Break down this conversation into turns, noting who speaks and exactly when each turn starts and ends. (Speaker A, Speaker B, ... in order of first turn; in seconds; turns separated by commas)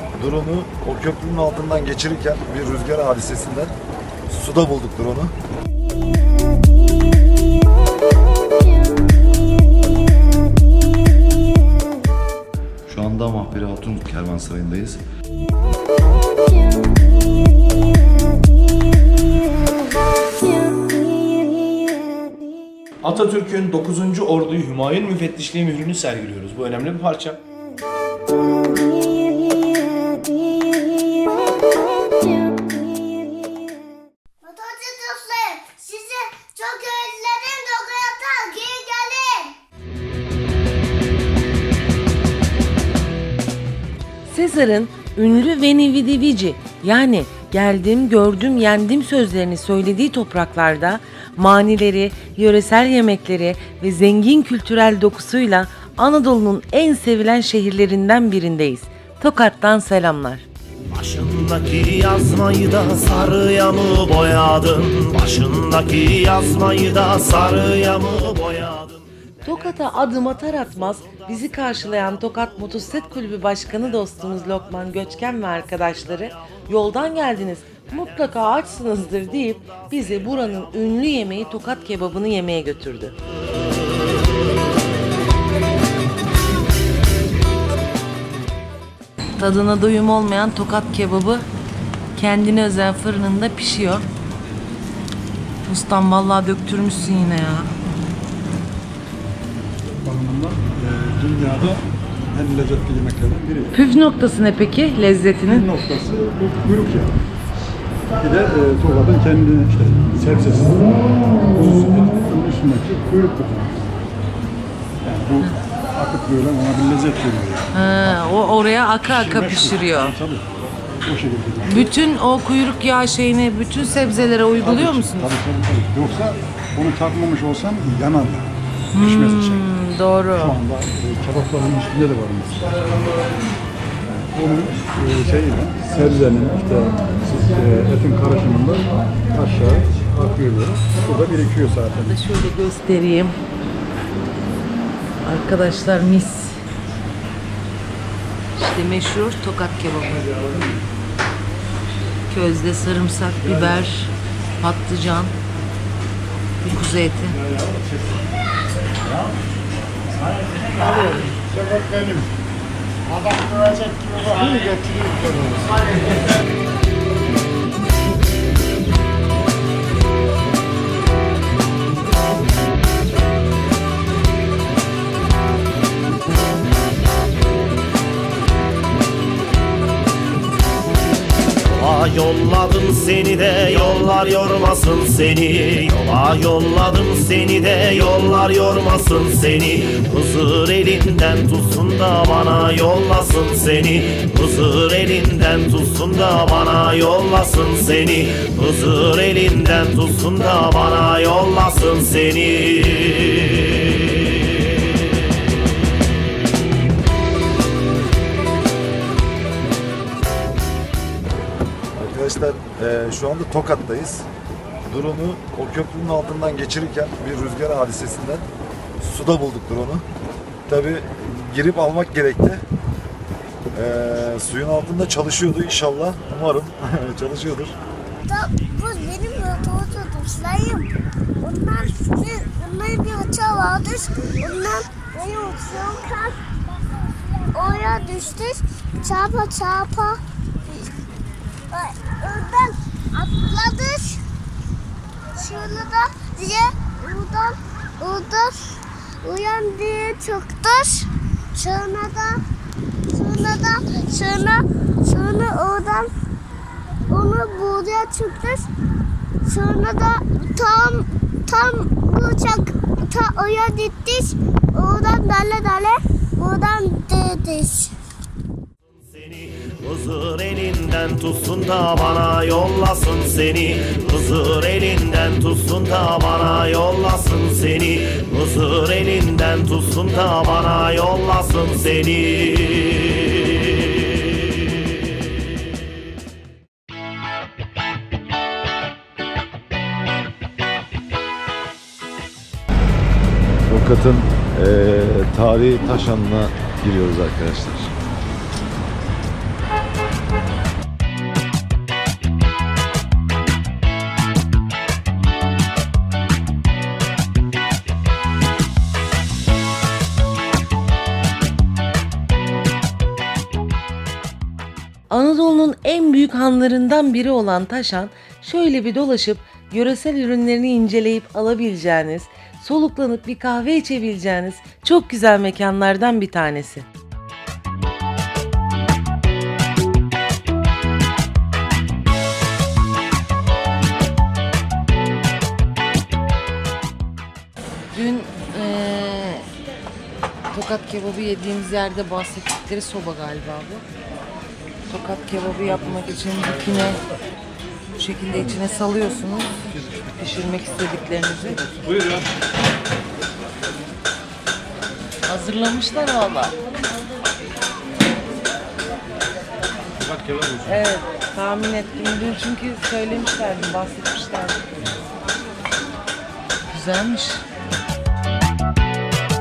Speaker A: 0.2-3.7, Speaker A: 4.3-5.3, Speaker A: 12.9-15.0, Speaker B: 23.0-27.4, Speaker C: 34.4-39.5, Speaker D: 44.3-60.5, Speaker E: 60.9-69.0, Speaker D: 69.4-83.2, Speaker D: 89.4-91.5, Speaker D: 92.2-94.1, Speaker D: 95.7-97.7, Speaker F: 100.0-103.7, Speaker D: 103.7-105.7, Speaker F: 105.6-107.2, Speaker F: 108.2-113.8, Speaker F: 115.0-117.6, Speaker D: 117.7-120.2, Speaker F: 119.2-120.4, Speaker F: 121.0-121.9, Speaker D: 121.7-125.3, Speaker F: 124.6-128.5, Speaker D: 128.9-130.6, Speaker F: 129.1-129.6, Speaker F: 130.4-132.7, Speaker F: 134.2-142.1, Speaker D: 142.0-143.4, Speaker D: 145.2-146.6, Speaker D: 148.6-150.4, Speaker D: 152.3-154.1, Speaker D: 154.6-155.3, Speaker D: 156.6-157.4, Speaker F: 162.0-162.2, Speaker E: 181.7-204.2, Speaker A: 212.0-214.3, Speaker A: 214.9-218.5, Speaker A: 219.0-220.1, Speaker A: 220.7-222.7, Speaker A: 223.7-227.8, Speaker C: 228.3-236.4, Speaker C: 237.5-240.2, Speaker C: 241.7-244.2, Speaker C: 245.4-252.4, Speaker C: 253.1-256.1, Speaker C: 257.1-258.7, Speaker C: 259.4-267.9, Speaker E: 269.1-284.0, Speaker A: 293.7-297.9, Speaker D: 315.1-326.9, Speaker D: 337.9-339.5, Speaker D: 340.5-343.8, Speaker D: 344.9-347.0, Speaker D: 348.0-351.8, Speaker D: 355.3-356.6, Speaker D: 360.6-364.6, Speaker D: 366.7-367.4